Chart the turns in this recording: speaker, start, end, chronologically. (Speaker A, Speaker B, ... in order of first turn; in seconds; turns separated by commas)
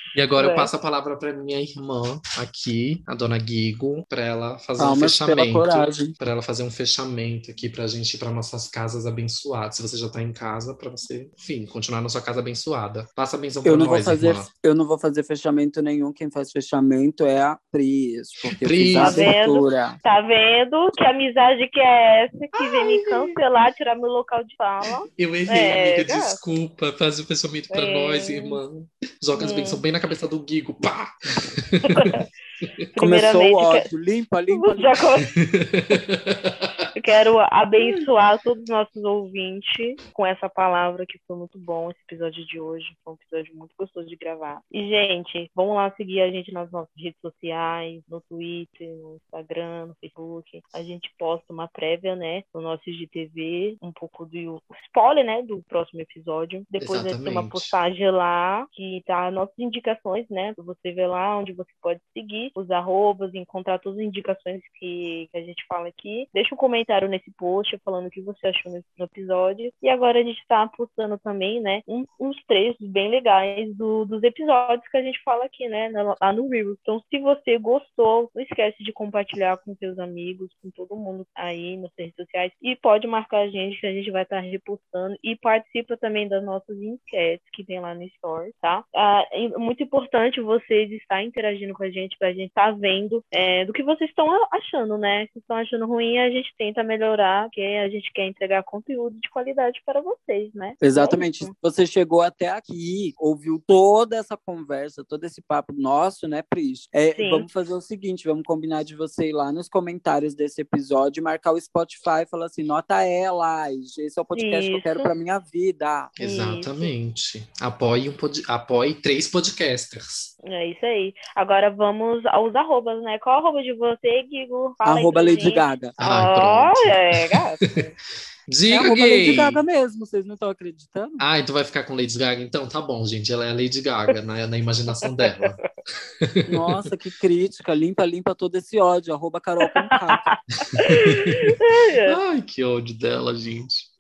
Speaker A: 0.1-14.5, Speaker B: 0.4-0.7, Speaker C: 4.8-6.1, Speaker C: 13.7-20.0, Speaker A: 18.6-19.3, Speaker B: 19.0-26.4, Speaker C: 22.6-23.4, Speaker A: 25.2-32.1, Speaker B: 27.7-28.6, Speaker B: 29.4-29.8, Speaker B: 31.9-32.2, Speaker B: 33.0-33.9, Speaker C: 33.0-34.9, Speaker B: 34.5-35.4, Speaker A: 35.4-36.5, Speaker B: 37.0-101.5, Speaker A: 56.8-57.8, Speaker C: 100.8-116.2, Speaker B: 107.2-107.5, Speaker B: 114.3-115.1, Speaker A: 116.2-120.3, Speaker B: 116.2-116.9, Speaker B: 120.5-127.9, Speaker C: 124.8-125.9, Speaker A: 126.0-127.2, Speaker A: 128.5-129.6, Speaker C: 128.7-131.2, Speaker A: 131.2-136.8, Speaker C: 136.5-140.3, Speaker B: 140.2-142.2, Speaker A: 140.8-141.3, Speaker A: 142.1-143.9